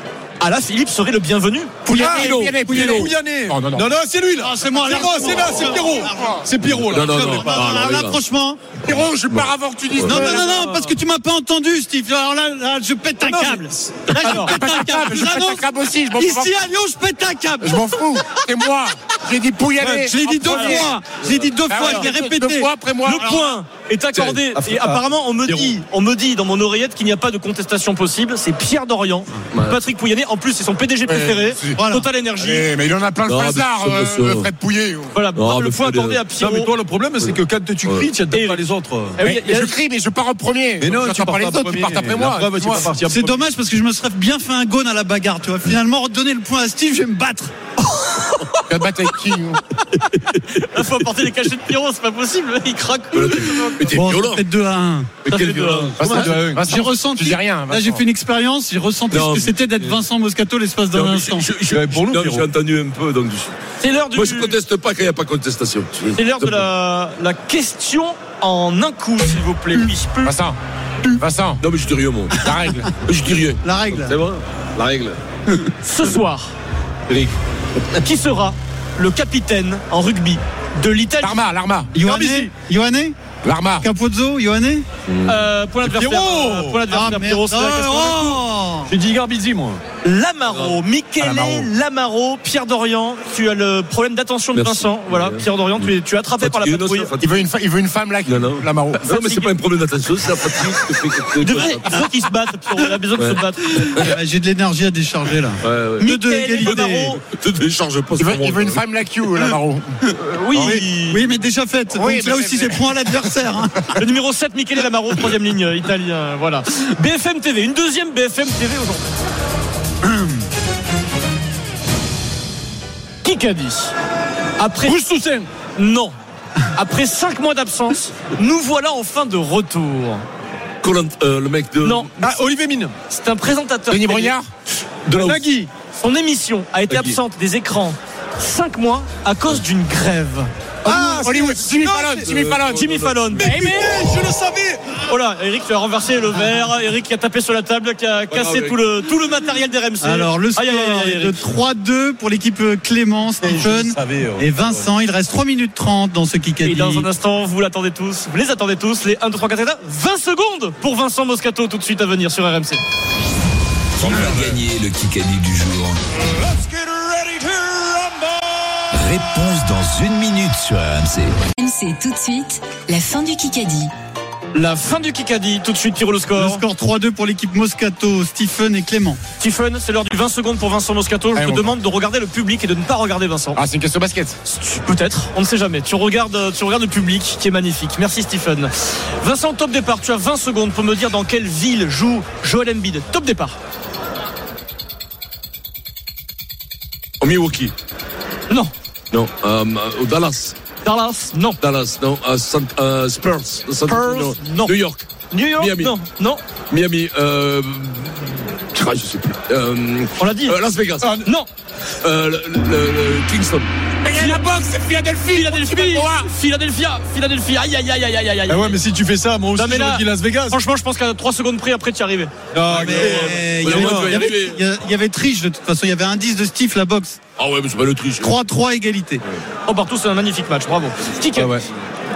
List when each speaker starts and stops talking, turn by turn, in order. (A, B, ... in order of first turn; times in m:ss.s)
0:00.4-0:01.7 A
0:01.8-0:03.9 B
0:01.9-0:07.6 C
0:02.1-0:02.8 D
0:02.4-0:03.0 E
0:04.4-0:06.5 E
0:06.6-0:08.2 D
0:07.1-0:08.7 E
0:08.8-0:10.5 B
0:08.9-0:10.3 D
0:10.0-0:17.9 E
0:10.2-0:11.0 C
0:13.2-0:14.1 C
0:13.5-0:14.6 A
0:14.2-0:16.6 B
0:17.6-0:21.0 B
0:19.8-0:20.2 C
0:20.0-0:23.4 E
0:20.4-0:20.9 A
0:21.7-0:23.4 B
0:21.8-0:22.1 A
0:23.0-0:32.7 A
0:24.1-0:25.8 C
0:29.5-0:29.8 D
0:31.1-0:31.8 B
0:31.8-0:32.1 E
0:32.4-0:35.1 B
0:33.3-0:34.5 D
0:35.1-0:36.7 A
0:35.4-0:36.2 D
0:36.4-0:39.2 C
0:37.2-0:38.1 D
0:38.3-0:39.8 A
0:39.2-0:42.9 B
0:40.8-0:43.4 C
0:43.0-0:47.5 E
0:47.8-0:48.7 A
0:48.7-0:49.6 B
0:50.2-0:54.0 A
0:53.1-0:54.4 D
0:53.9-0:55.3 E
0:55.2-0:56.4 D
0:55.3-0:56.0 A
0:56.0-0:58.0 B
0:56.0-0:56.7 C
0:56.6-1:01.5 E
0:59.1-1:00.0 D
1:00.9-1:03.6 D
1:01.7-1:02.5 C
1:03.8-1:04.6 A
1:04.1-1:06.7 D
1:06.1-1:10.4 A
1:10.2-1:10.6 B
1:11.2-1:11.6 B
1:11.6-1:12.4 D
1:12.3-1:12.9 B
1:13.0-1:15.2 D
1:13.6-1:14.2 E
1:15.5-1:15.7 E
1:15.8-1:16.5 A
1:18.0-1:21.4 A
1:21.2-1:21.9 B
1:22.0-1:23.2 E
1:22.0-1:22.5 A
1:23.4-1:23.9 B
1:23.8-1:24.8 E
1:25.1-1:25.4 D
1:25.3-1:28.4 A
1:25.8-1:26.8 C
1:26.9-1:28.9 E
1:28.9-1:29.8 C
1:30.0-1:37.1 A
1:30.5-1:30.8 D
1:31.2-1:31.7 B
1:34.5-1:37.5 D
1:37.2-1:39.0 B
1:38.2-1:42.1 D
1:39.0-1:39.6 A
1:41.4-1:43.8 A
1:43.2-1:44.2 D
1:43.8-1:47.2 E
1:45.6-1:48.8 D
1:46.0-1:47.2 A
1:48.2-1:50.0 B
1:50.2-1:51.2 A
1:50.5-1:50.8 B
1:50.6-1:53.9 E
1:51.9-1:53.3 B
1:54.0-1:59.1 A
2:00.0-2:00.4 E
2:03.2-2:03.9 A
2:04.6-2:05.0 A
2:04.8-2:05.5 C
2:05.8-2:06.2 A
2:06.7-2:10.2 A
2:10.8-2:12.1 D
2:11.8-2:12.1 A
2:12.2-2:13.0 C
2:13.1-2:14.4 A
2:13.9-2:14.5 B
2:15.1-2:15.4 D
2:15.2-2:15.7 C
2:16.0-2:20.5 A
2:16.9-2:17.2 D
2:20.8-2:22.3 C
2:20.8-2:22.9 B
2:22.2-2:23.4 D
2:22.7-2:23.9 A
2:23.3-2:24.9 C
2:25.0-2:31.4 A
2:28.3-2:28.8 D
2:30.0-2:37.1 E
2:33.4-2:34.9 C
2:36.6-2:42.8 A
2:44.0-2:46.0 F
2:44.0-2:44.6 C
2:46.5-2:48.2 C
2:48.9-2:50.0 F
2:50.6-2:51.5 F
2:51.5-2:53.9 G
2:54.5-2:56.6 A
2:56.3-2:59.2 E
2:59.4-3:03.6 A
3:01.4-3:01.7 B
3:03.6-3:04.4 B
3:04.4-3:13.6 A
3:17.2-3:17.7 D
3:19.1-3:20.6 D
3:20.8-3:21.6 A
3:21.6-3:26.0 D
3:23.9-3:24.7 A
3:25.3-3:26.4 A
3:26.7-3:31.1 D
3:30.2-3:30.6 A
3:31.0-3:31.3 C
3:32.0-3:33.7 D
3:34.0-3:36.3 B
3:34.1-3:34.5 A
3:35.2-3:38.8 A
3:38.5-3:40.6 C
3:39.6-3:43.4 A
3:42.5-3:44.3 C
3:42.7-3:47.2 E
3:43.6-3:44.6 D
3:47.4-3:48.4 D
3:48.2-3:49.2 E
3:49.7-3:51.6 A
3:51.4-3:51.7 C